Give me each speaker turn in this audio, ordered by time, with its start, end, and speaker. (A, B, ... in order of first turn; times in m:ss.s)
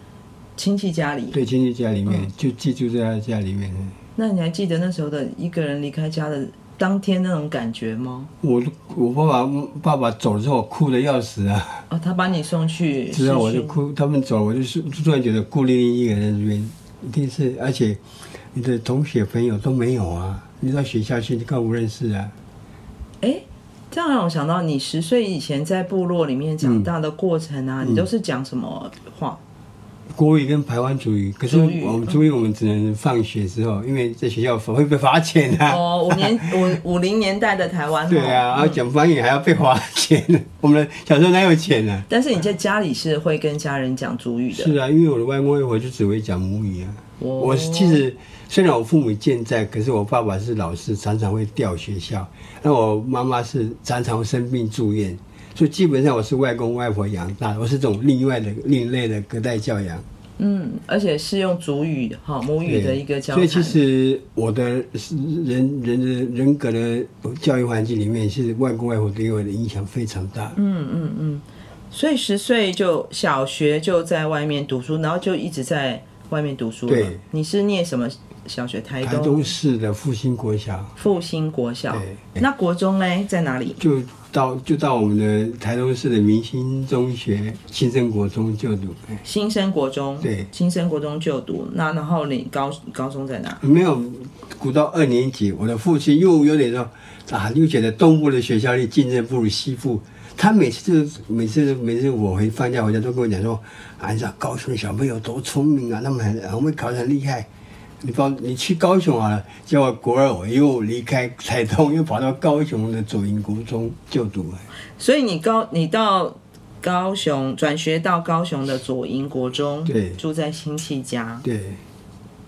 0:00.6-0:01.4 A
0:01.3-0:04.0 B
0:04.2-0:08.3 A
0:08.4-0:11.8 B
0:11.9-0:13.8 A
0:13.1-0:18.0 B
0:18.5-0:22.4 B
0:23.2-0:29.4 A
0:26.6-0:26.9 B
0:30.1-0:36.7 B
0:31.5-0:32.2 A
0:35.7-0:38.8 A
0:38.1-0:42.1 B
0:42.1-0:44.7 A
0:44.5-1:00.0 B
0:47.2-0:48.0 A
1:00.4-1:03.8 A
1:02.6-1:10.6 B
1:10.6-1:19.5 A
1:16.9-1:17.2 B
1:19.0-1:21.0 B
1:21.0-1:23.8 A
1:21.9-1:22.4 B
1:23.8-1:29.2 B
1:29.2-1:33.6 A
1:30.2-1:30.5 B
1:33.6-1:47.5 B
1:48.0-1:54.6 B
1:55.0-2:01.4 A
1:59.9-2:00.2 B
2:01.4-2:01.8 B